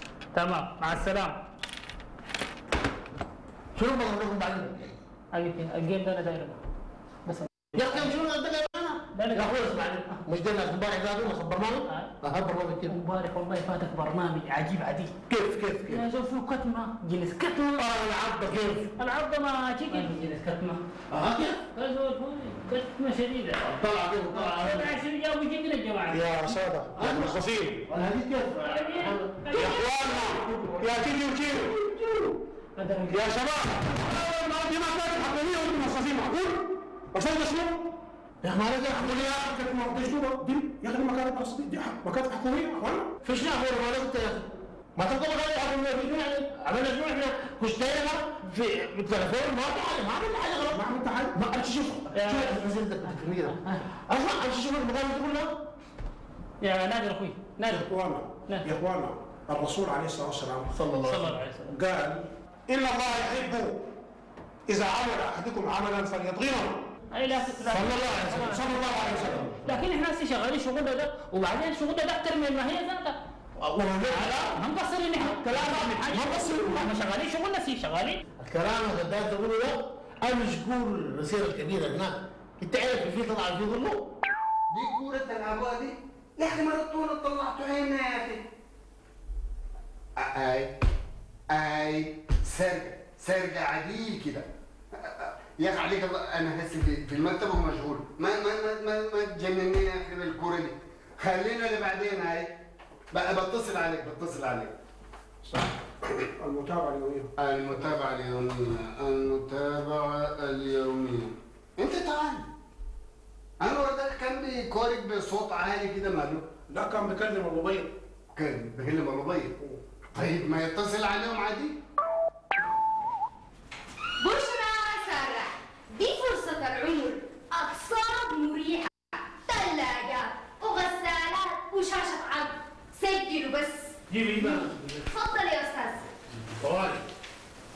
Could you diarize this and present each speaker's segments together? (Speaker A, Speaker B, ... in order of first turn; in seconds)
Speaker A: 0.3-1.3, 5.3-6.6, 7.2-8.1, 9.1-10.2, 12.9-15.1, 15.9-17.8, 18.9-20.8, 21.7-23.6, 24.3-26.6, 28.6-30.9, 32.8-33.4, 52.1-53.8, 56.6-57.9, 61.0-61.7, 67.1-69.1, 69.6-73.2, 74.1-78.2, 134.1-135.0
Speaker B: 3.7-5.0, 7.7-13.0, 15.3-16.0, 17.7-18.9, 21.1-21.6, 23.6-25.0, 26.9-29.4, 38.4-39.5, 43.2-50.8, 51.3-55.5, 60.7-61.4, 67.7-68.4, 73.6-74.6, 75.2-76.9, 78.4-84.0, 134.3-134.8, 136.5-137.0
Speaker C: 26.1-27.8, 29.5-31.7, 33.1-37.9, 39.2-43.1, 50.7-51.4, 57.6-60.7, 61.7-63.8, 64.7-66.8, 67.7-69.5, 105.4-105.7, 106.4-107.3, 116.7-117.9
Speaker D: 84.7-88.4, 90.2-90.7, 91.5-102.5, 103.1-104.7, 107.4-112.5, 113.6-116.5, 118.3-119.5, 120.1-121.8
Speaker E: 124.2-133.9, 135.0-136.1